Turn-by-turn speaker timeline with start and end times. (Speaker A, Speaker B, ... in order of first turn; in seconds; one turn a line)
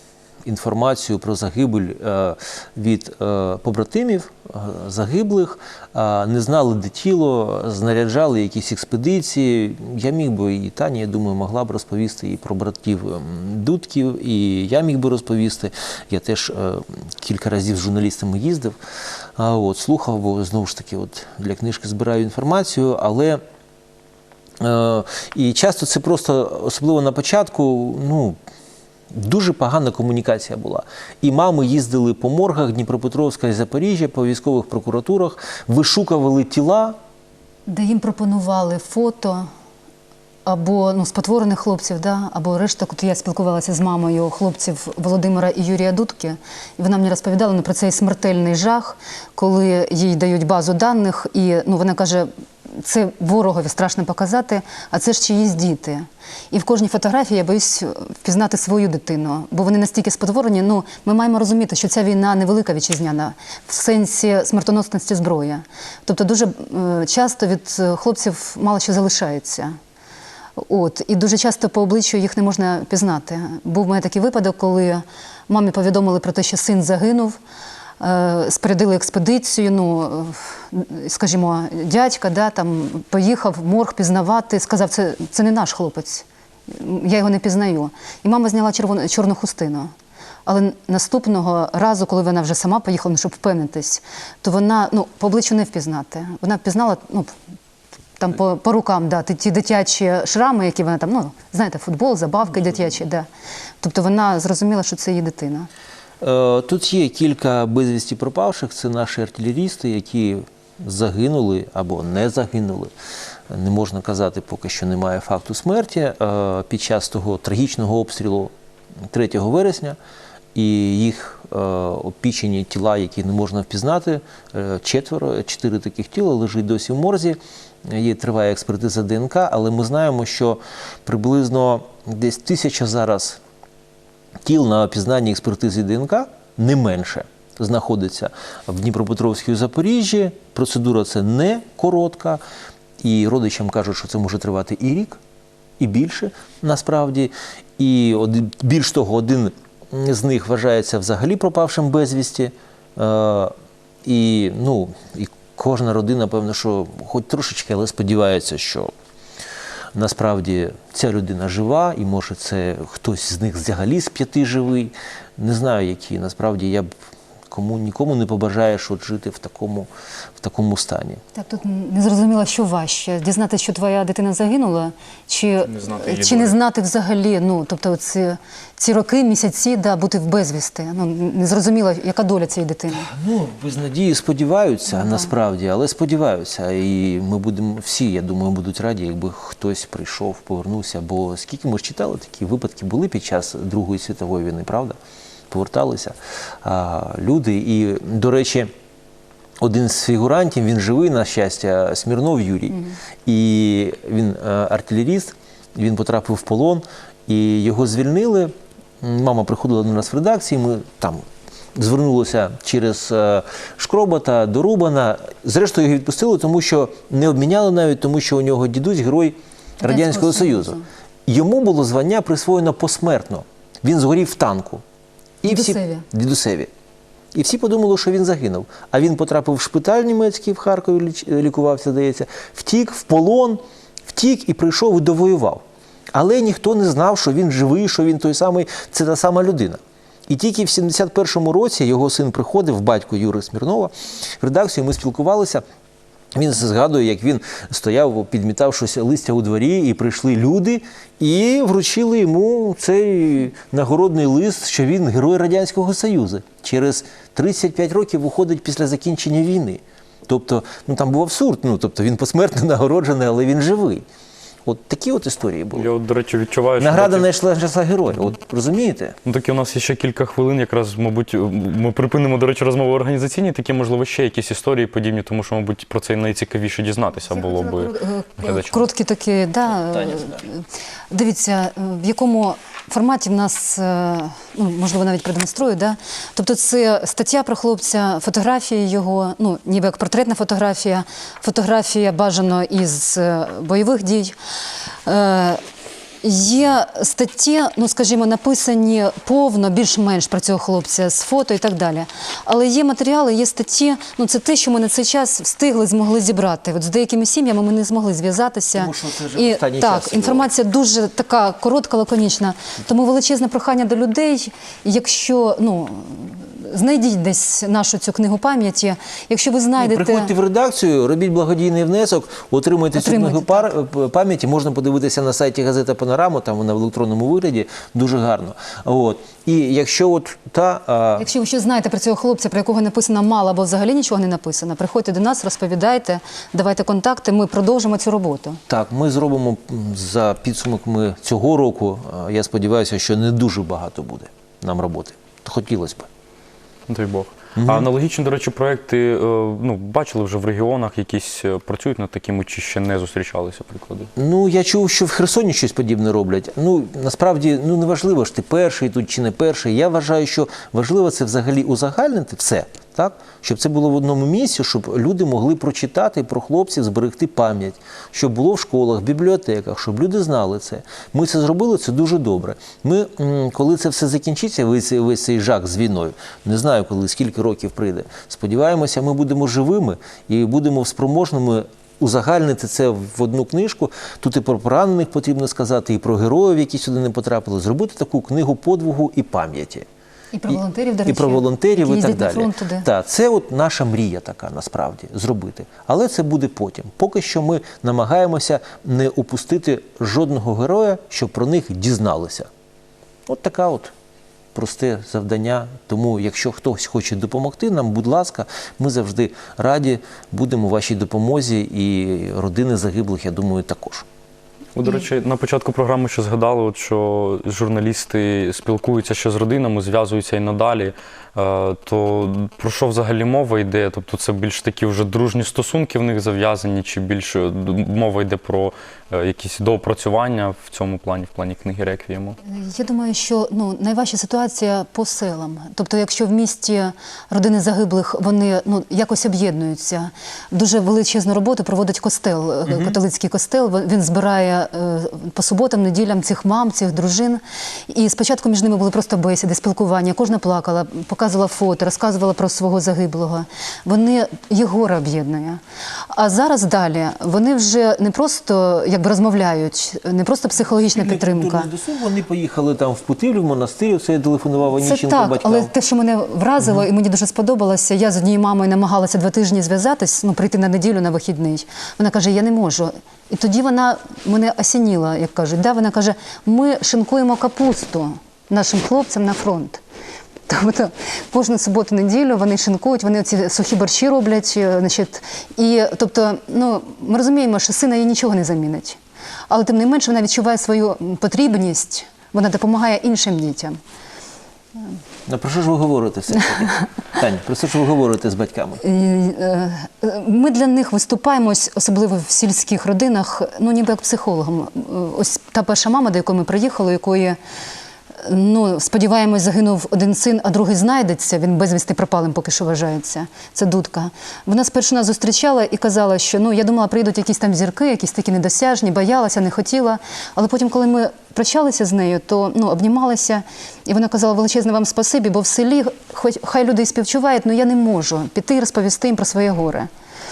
Speaker A: 0.5-18.8
Speaker A: 19.4-23.4
Speaker A: 24.6-28.4
Speaker A: 29.1-37.0
Speaker B: 37.7-39.5
Speaker B: 40.5-69.8
Speaker B: 70.6-77.4
Speaker B: 78.0-89.9
Speaker B: 90.5-97.3
Speaker B: 98.2-103.3
Speaker B: 103.8-105.7
Speaker A: 106.2-112.9
Speaker A: 113.5-118.5
Speaker A: 119.1-120.0
Speaker A: 120.5-133.4
Speaker A: 134.4-142.4
Speaker A: 143.0-145.2
Speaker A: 145.8-153.5
Speaker A: 154.0-158.9
Speaker A: 159.9-166.9
Speaker A: 167.5-171.2
Speaker B: 171.3-183.1
Speaker C: 175.7-176.6
Speaker A: 182.9-195.0
Speaker B: 185.0-185.3
Speaker A: 195.5-198.7
Speaker A: 199.6-224.8
Speaker B: 219.8-220.9
Speaker A: 225.4-226.7
Speaker B: 225.4-226.1
Speaker A: 227.3-235.6
Speaker A: 236.1-245.6
Speaker A: 246.3-264.1
Speaker A: 264.6-265.9
Speaker C: 265.8-267.3
Speaker A: 266.8-269.2
Speaker C: 269.3-278.9
Speaker B: 277.3-294.4
Speaker A: 279.9-280.4
Speaker B: 295.1-295.6
Speaker B: 296.2-320.3
Speaker A: 308.8-310.5
Speaker A: 319.8-331.3
Speaker B: 322.9-323.7
Speaker B: 331.2-338.6
Speaker A: 338.7-346.1
Speaker C: 346.9-354.1
Speaker A: 347.6-347.9
Speaker A: 354.2-389.9
Speaker B: 390.3-392.9
Speaker A: 390.5-402.5
Speaker A: 403.3-403.9
Speaker A: 404.5-414.1
Speaker C: 414.8-432.4
Speaker B: 432.4-461.7
Speaker A: 442.7-443.0
Speaker A: 460.6-465.7
Speaker B: 464.8-479.8
Speaker B: 480.5-489.0
Speaker B: 489.5-493.8
Speaker A: 495.3-498.8
Speaker B: 498.8-507.4
Speaker B: 508.2-529.9